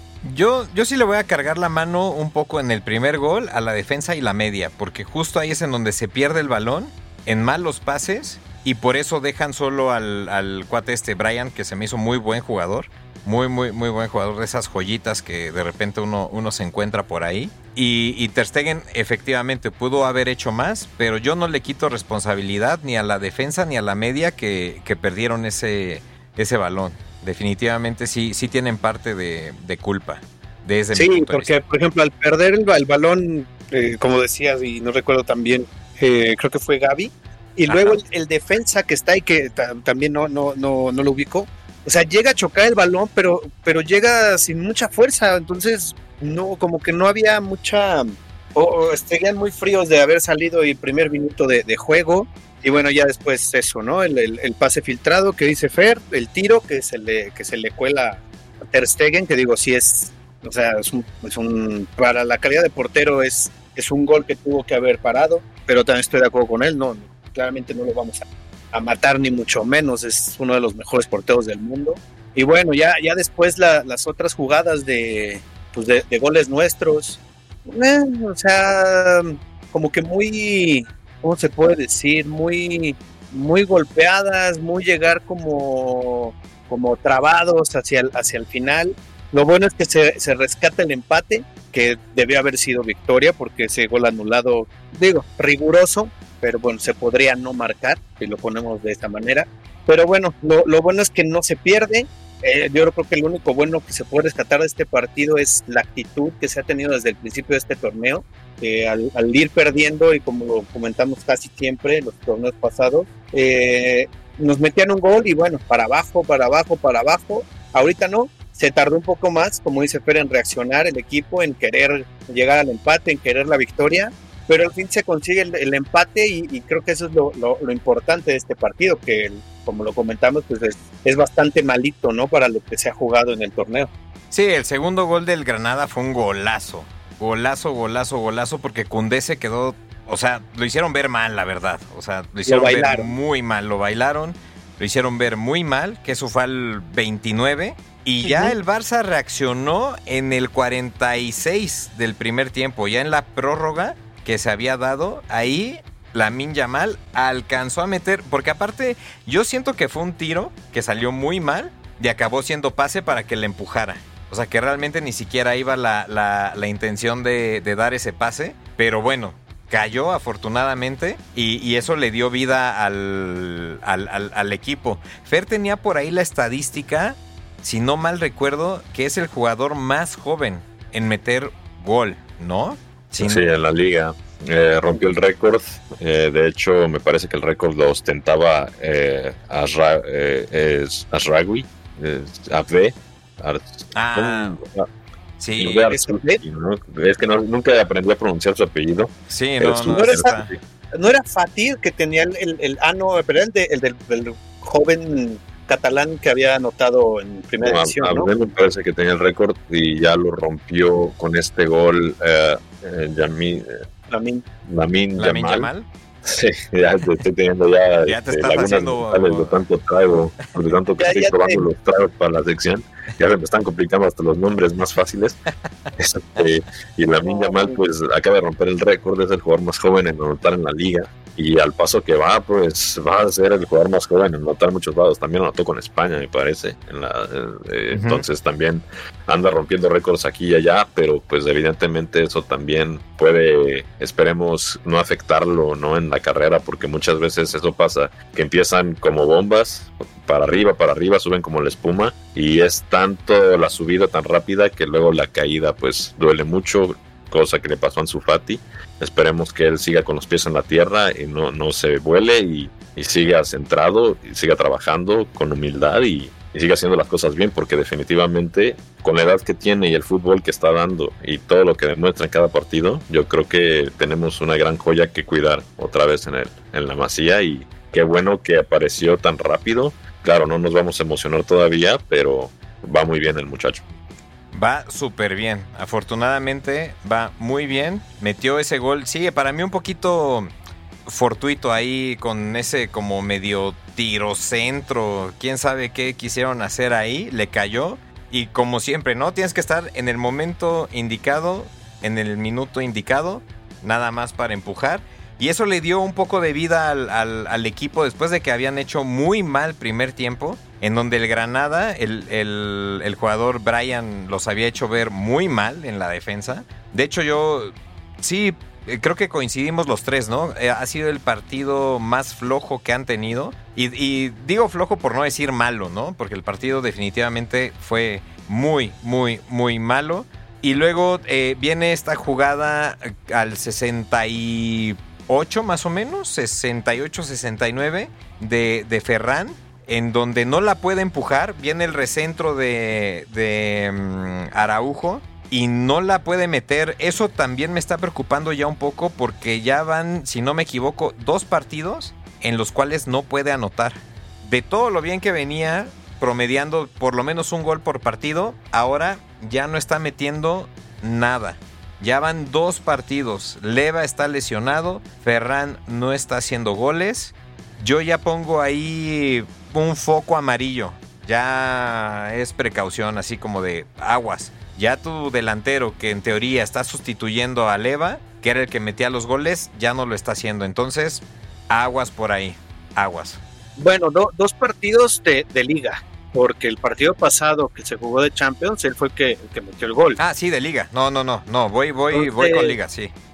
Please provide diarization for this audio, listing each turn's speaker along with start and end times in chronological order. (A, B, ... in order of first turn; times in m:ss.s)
0:00.2-0:31.5 A
0:30.9-2:13.9 B
0:37.7-0:38.0 A
2:14.3-3:03.4 A
2:22.4-2:23.1 B
2:28.2-2:28.6 B
3:03.2-3:14.9 C
3:13.9-3:14.6 A
3:15.4-3:15.9 A
3:15.6-3:20.6 C
3:15.9-3:16.4 B
3:19.3-3:20.5 A
3:19.9-3:20.3 B
3:20.9-3:28.3 B
3:27.6-3:33.7 C
3:34.1-3:34.4 B
3:34.6-3:35.7 C
3:35.2-3:35.9 A
3:36.2-3:45.4 C
3:38.0-3:39.6 A
3:41.0-3:41.6 B
3:46.0-4:43.8 C
3:47.2-3:47.8 B
3:57.9-3:58.2 A
4:44.5-4:50.5 A
4:51.0-6:23.4 A
6:23.8-6:30.2 B
6:30.2-6:33.1 A
6:32.1-6:32.8 B